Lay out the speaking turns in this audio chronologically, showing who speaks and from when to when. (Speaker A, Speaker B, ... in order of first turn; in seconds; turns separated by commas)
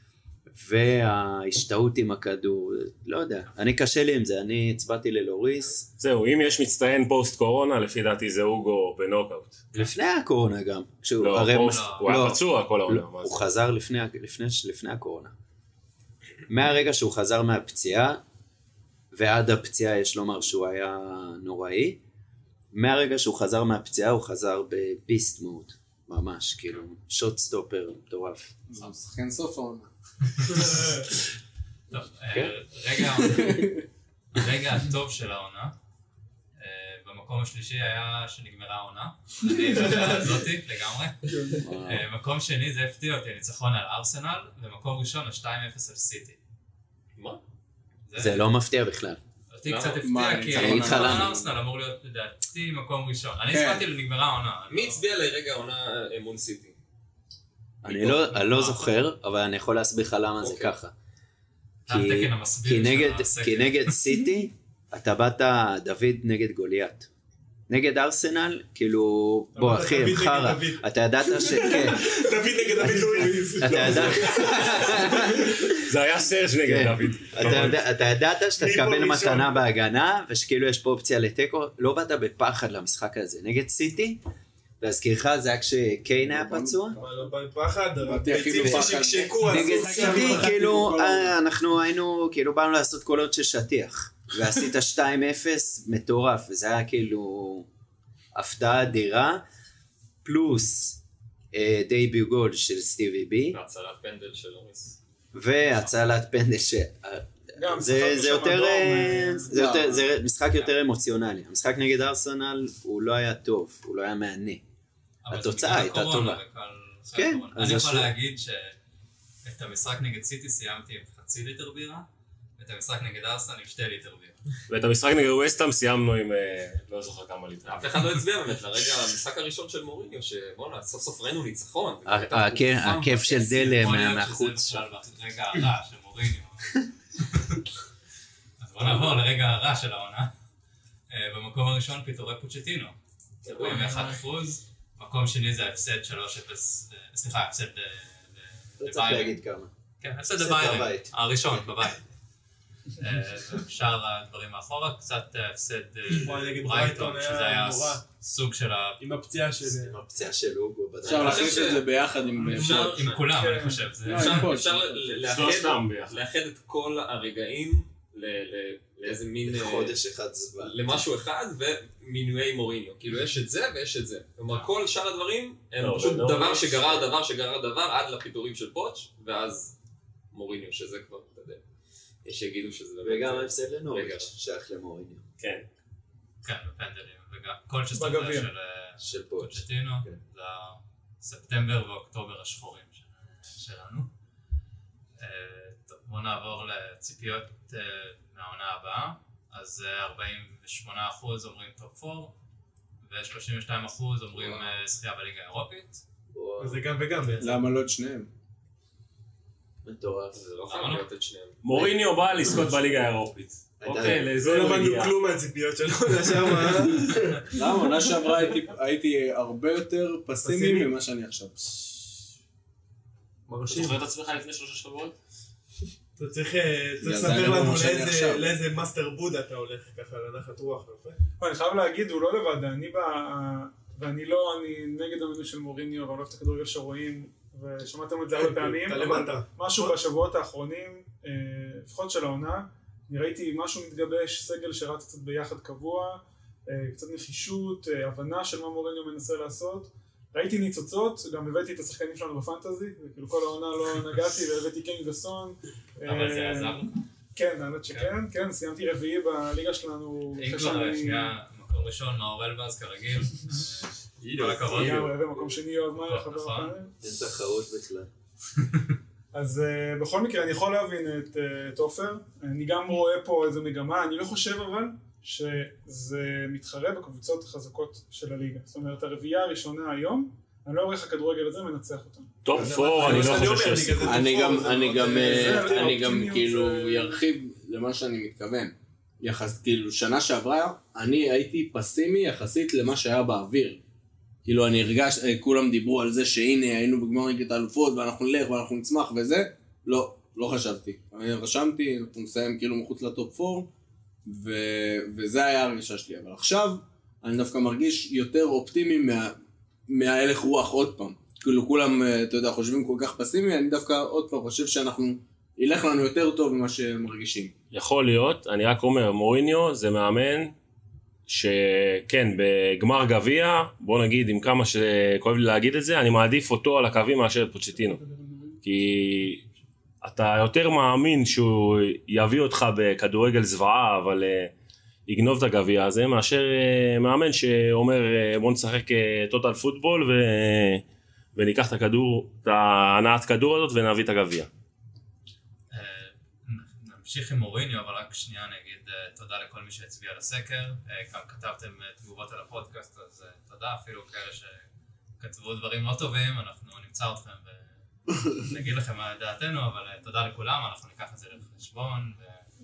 Speaker A: 0.5-5.8, Speaker B: 6.0-9.7, Speaker A: 9.7-15.3, Speaker B: 11.2-13.4, Speaker C: 11.5-12.1, Speaker A: 16.5-18.2, Speaker A: 19.1-22.0, Speaker A: 22.7-28.5, Speaker D: 28.7-29.9, Speaker C: 30.4-31.0, Speaker C: 31.9-33.7, Speaker D: 33.2-33.8, Speaker C: 34.3-35.7, Speaker C: 36.6-46.4, Speaker A: 41.6-42.0, Speaker E: 47.1-47.4, Speaker C: 48.1-48.5, Speaker A: 48.1-49.2, Speaker C: 49.5-55.0, Speaker E: 49.6-50.0, Speaker D: 50.0-51.5, Speaker A: 50.5-51.3, Speaker D: 53.5-53.9, Speaker E: 54.7-56.7, Speaker A: 57.8-60.9, Speaker C: 57.9-59.0, Speaker E: 60.4-60.7, Speaker C: 61.9-64.0, Speaker A: 61.9-67.1, Speaker A: 67.7-72.0, Speaker F: 69.5-70.8, Speaker F: 71.6-74.2, Speaker B: 72.8-77.8, Speaker A: 72.8-75.5, Speaker A: 76.6-84.2, Speaker F: 78.6-79.7, Speaker A: 84.8-87.0, Speaker D: 86.2-87.3, Speaker F: 87.0-90.6, Speaker D: 88.0-91.3, Speaker A: 88.6-88.9, Speaker A: 89.4-97.7, Speaker A: 98.3-99.4, Speaker A: 100.2-101.0, Speaker A: 101.5-103.6, Speaker E: 103.5-105.0, Speaker A: 105.3-114.6, Speaker C: 105.7-106.0, Speaker G: 107.5-109.5, Speaker D: 109.5-109.9, Speaker C: 115.2-118.7, Speaker A: 115.3-116.4, Speaker A: 117.1-118.1, Speaker C: 119.4-122.1, Speaker C: 122.6-124.4, Speaker B: 124.7-128.1, Speaker E: 127.7-133.8, Speaker A: 132.1-134.8, Speaker C: 133.6-137.6, Speaker C: 138.6-140.3, Speaker C: 141.1-149.4, Speaker E: 143.4-144.2, Speaker A: 148.8-149.7, Speaker C: 150.0-152.0, Speaker A: 150.4-151.1, Speaker C: 153.0-159.0, Speaker F: 156.1-158.0, Speaker F: 159.0-159.9, Speaker A: 159.6-161.8, Speaker D: 161.0-162.9, Speaker E: 161.1-161.8, Speaker C: 161.3-161.7, Speaker G: 162.4-164.0, Speaker C: 162.4-164.8, Speaker E: 162.5-163.2, Speaker D: 164.0-165.1, Speaker E: 164.1-170.0, Speaker B: 165.2-166.2, Speaker A: 169.0-171.0, Speaker E: 170.6-179.7, Speaker B: 175.8-176.9, Speaker E: 180.3-181.6, Speaker E: 182.2-184.3, Speaker A: 183.0-185.2, Speaker B: 185.4-185.7, Speaker C: 186.4-194.1, Speaker G: 187.9-188.5, Speaker A: 189.0-190.1, Speaker C: 195.2-202.3, Speaker C: 203.0-206.0, Speaker A: 206.3-206.9, Speaker F: 206.6-207.4, Speaker D: 207.4-208.3, Speaker A: 209.8-210.4, Speaker E: 210.3-211.6, Speaker C: 210.7-211.1, Speaker B: 211.6-215.1, Speaker A: 211.7-212.6, Speaker A: 213.8-214.3, Speaker F: 214.4-217.5, Speaker D: 217.5-222.1, Speaker F: 220.4-220.9, Speaker F: 223.5-224.0, Speaker B: 223.7-225.1, Speaker F: 226.2-231.2, Speaker D: 227.0-228.5, Speaker G: 231.4-256.8, Speaker F: 238.3-239.9, Speaker C: 256.1-257.0, Speaker G: 257.3-261.4, Speaker C: 260.3-265.1, Speaker E: 264.2-265.1, Speaker G: 264.7-266.9, Speaker C: 266.0-266.7, Speaker A: 267.0-268.1, Speaker G: 269.3-282.3, Speaker B: 282.4-284.4, Speaker F: 282.5-286.1, Speaker D: 284.0-293.8, Speaker G: 285.3-287.2, Speaker D: 294.4-303.7, Speaker D: 304.2-309.4, Speaker D: 309.9-317.5, Speaker B: 317.7-320.5, Speaker B: 321.3-328.0, Speaker G: 327.7-328.6, Speaker B: 328.6-329.4, Speaker B: 330.0-334.5, Speaker B: 335.1-340.8, Speaker B: 341.3-344.5, Speaker C: 345.7-354.6, Speaker C: 355.2-357.7, Speaker C: 358.3-362.4